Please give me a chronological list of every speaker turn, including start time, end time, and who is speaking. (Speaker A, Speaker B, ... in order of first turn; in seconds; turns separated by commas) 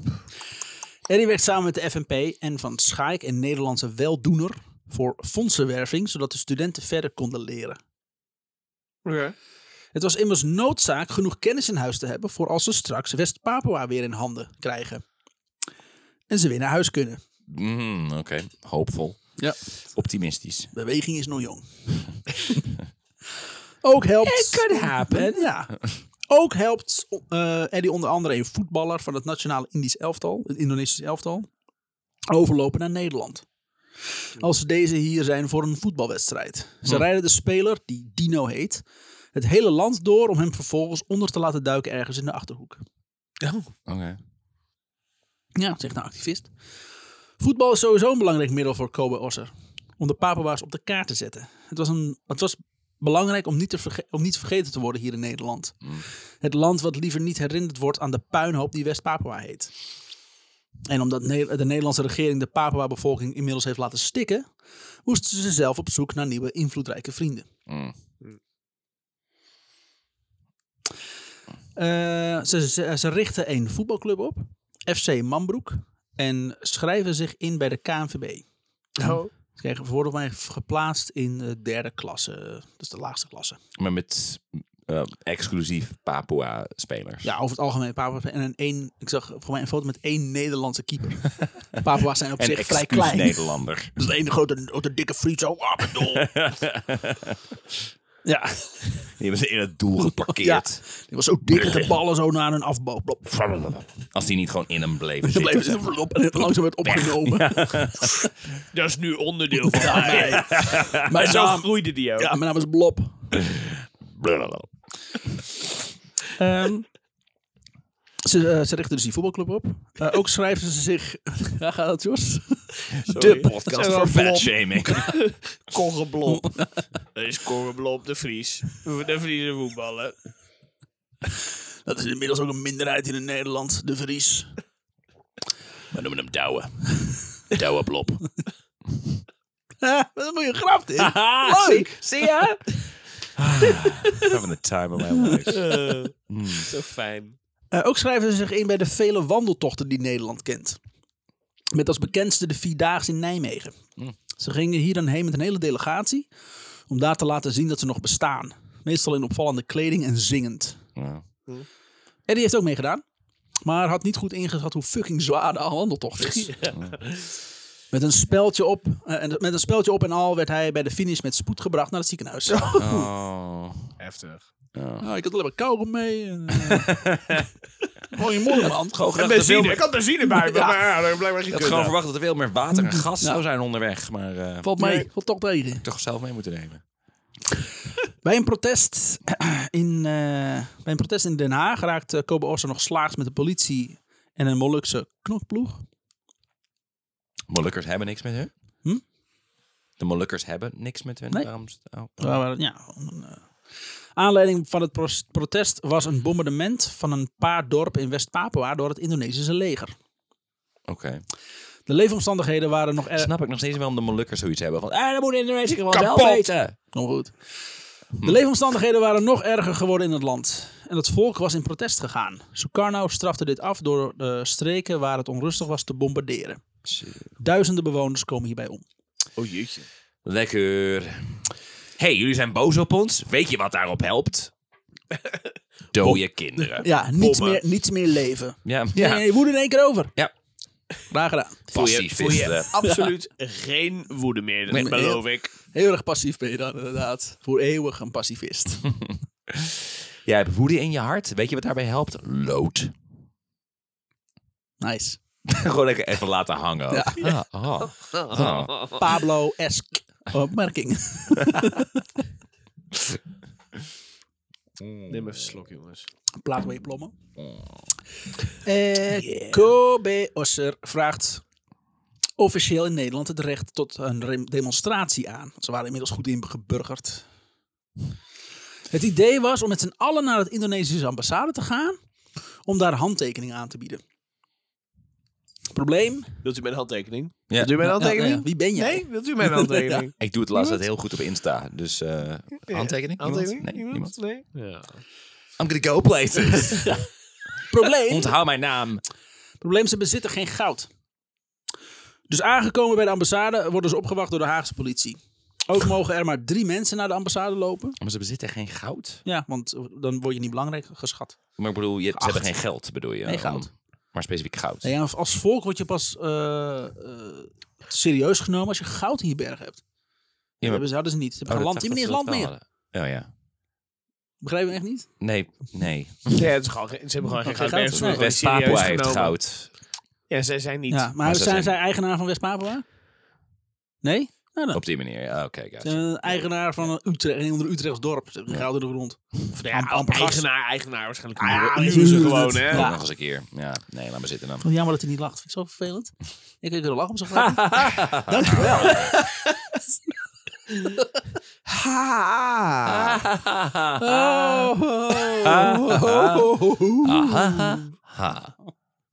Speaker A: 1.1-7.8, Speaker B: 9.0-9.3, Speaker A: 9.9-15.0, Speaker A: 16.3-17.2, Speaker C: 17.5-20.7, Speaker A: 20.7-22.0, Speaker A: 23.8-31.5, Speaker C: 24.2-25.5, Speaker A: 32.3-33.5, Speaker A: 34.4-38.8, Speaker A: 39.3-42.8, Speaker B: 43.4-43.7, Speaker C: 43.9-44.2, Speaker A: 45.5-46.5, Speaker A: 47.4-59.7, Speaker A: 60.9-64.5, Speaker A: 65.0-67.5, Speaker C: 67.7-67.9, Speaker A: 71.8-78.4, Speaker B: 79.0-79.3, Speaker A: 79.5-83.6, Speaker C: 83.8-87.3, Speaker A: 87.2-96.3, Speaker C: 92.4-93.9, Speaker C: 95.9-97.4, Speaker A: 98.2-99.1, Speaker C: 99.2-100.8, Speaker A: 100.2-103.8, Speaker C: 101.5-101.9, Speaker C: 103.7-105.8, Speaker A: 105.2-108.3, Speaker C: 106.8-108.2, Speaker B: 108.7-112.3, Speaker A: 109.7-113.3, Speaker C: 110.1-111.0, Speaker C: 113.3-114.7, Speaker A: 116.3-116.9, Speaker A: 118.2-122.7, Speaker B: 123.0-126.5, Speaker C: 123.1-125.2, Speaker A: 126.3-126.7, Speaker B: 127.1-130.2, Speaker A: 131.8-134.5, Speaker C: 135.9-136.9, Speaker C: 137.5-138.2, Speaker A: 139.8-141.9, Speaker C: 141.0-142.7, Speaker C: 143.4-146.7, Speaker B: 145.5-147.4, Speaker A: 147.7-150.8, Speaker A: 151.7-153.8, Speaker A: 154.3-156.3, Speaker A: 156.9-160.8, Speaker C: 160.9-161.2, Speaker A: 162.3-163.0, Speaker A: 163.6-166.6, Speaker B: 166.2-167.3, Speaker A: 167.9-173.0, Speaker B: 172.5-172.9, Speaker C: 172.8-173.9, Speaker B: 174.0-174.4, Speaker C: 174.7-175.0, Speaker A: 175.0-177.0, Speaker C: 176.7-177.5, Speaker A: 178.1-179.0, Speaker C: 178.9-179.8, Speaker B: 179.1-181.9, Speaker A: 180.3-180.8, Speaker C: 181.5-185.0, Speaker A: 182.9-183.4, Speaker A: 184.6-185.8, Speaker C: 185.8-186.8, Speaker A: 188.2-195.8, Speaker C: 197.5-198.5, Speaker C: 200.0-202.3, Speaker A: 202.2-203.5, Speaker A: 204.2-209.9, Speaker C: 210.9-211.2, Speaker A: 211.9-213.3, Speaker C: 213.1-216.7, Speaker A: 216.9-217.3, Speaker A: 218.2-226.6, Speaker C: 226.9-227.2, Speaker A: 227.4-228.8, Speaker B: 229.3-229.9, Speaker C: 230.2-234.5, Speaker C: 235.9-236.9, Speaker A: 236.8-240.1, Speaker B: 237.2-237.6, Speaker C: 238.6-239.2, Speaker A: 241.1-241.7, Speaker C: 241.7-242.7, Speaker B: 241.7-245.5, Speaker A: 242.8-243.1, Speaker A: 244.7-248.9, Speaker C: 250.2-252.9, Speaker A: 254.8-255.2, Speaker C: 255.5-258.8, Speaker A: 256.9-257.3, Speaker B: 258.1-259.0, Speaker A: 258.9-262.0, Speaker C: 264.8-265.4, Speaker B: 265.1-266.1, Speaker A: 266.4-267.1, Speaker A: 268.6-271.4, Speaker B: 269.1-269.6, Speaker A: 272.4-277.2, Speaker A: 278.9-282.0, Speaker A: 282.6-284.0, Speaker A: 285.7-286.4, Speaker B: 286.4-290.1, Speaker C: 287.5-287.8, Speaker A: 287.8-290.1, Speaker C: 290.2-294.1, Speaker B: 292.7-295.0, Speaker C: 295.6-297.0, Speaker A: 297.7-298.3, Speaker C: 298.1-299.0, Speaker A: 299.6-300.9, Speaker A: 302.3-308.0, Speaker C: 308.0-309.2, Speaker A: 309.2-311.4, Speaker C: 311.6-314.9, Speaker A: 312.1-312.5, Speaker A: 313.2-313.7, Speaker A: 314.8-319.8, Speaker C: 320.6-320.9, Speaker A: 320.6-322.5, Speaker C: 321.4-323.3, Speaker A: 324.4-325.1, Speaker C: 325.2-326.5, Speaker B: 326.3-329.4, Speaker A: 327.4-328.3, Speaker C: 327.9-329.7, Speaker B: 330.3-331.1, Speaker A: 330.9-332.8, Speaker C: 331.2-331.7, Speaker A: 334.0-334.8, Speaker C: 334.7-336.4, Speaker A: 335.8-340.5, Speaker B: 339.6-342.9, Speaker A: 341.4-343.0, Speaker C: 342.7-344.6, Speaker A: 344.6-349.5, Speaker C: 347.4-349.1, Speaker A: 350.9-351.2, Speaker B: 351.7-353.1, Speaker C: 352.9-354.7, Speaker A: 354.0-357.8, Speaker C: 355.3-356.5, Speaker C: 357.0-358.5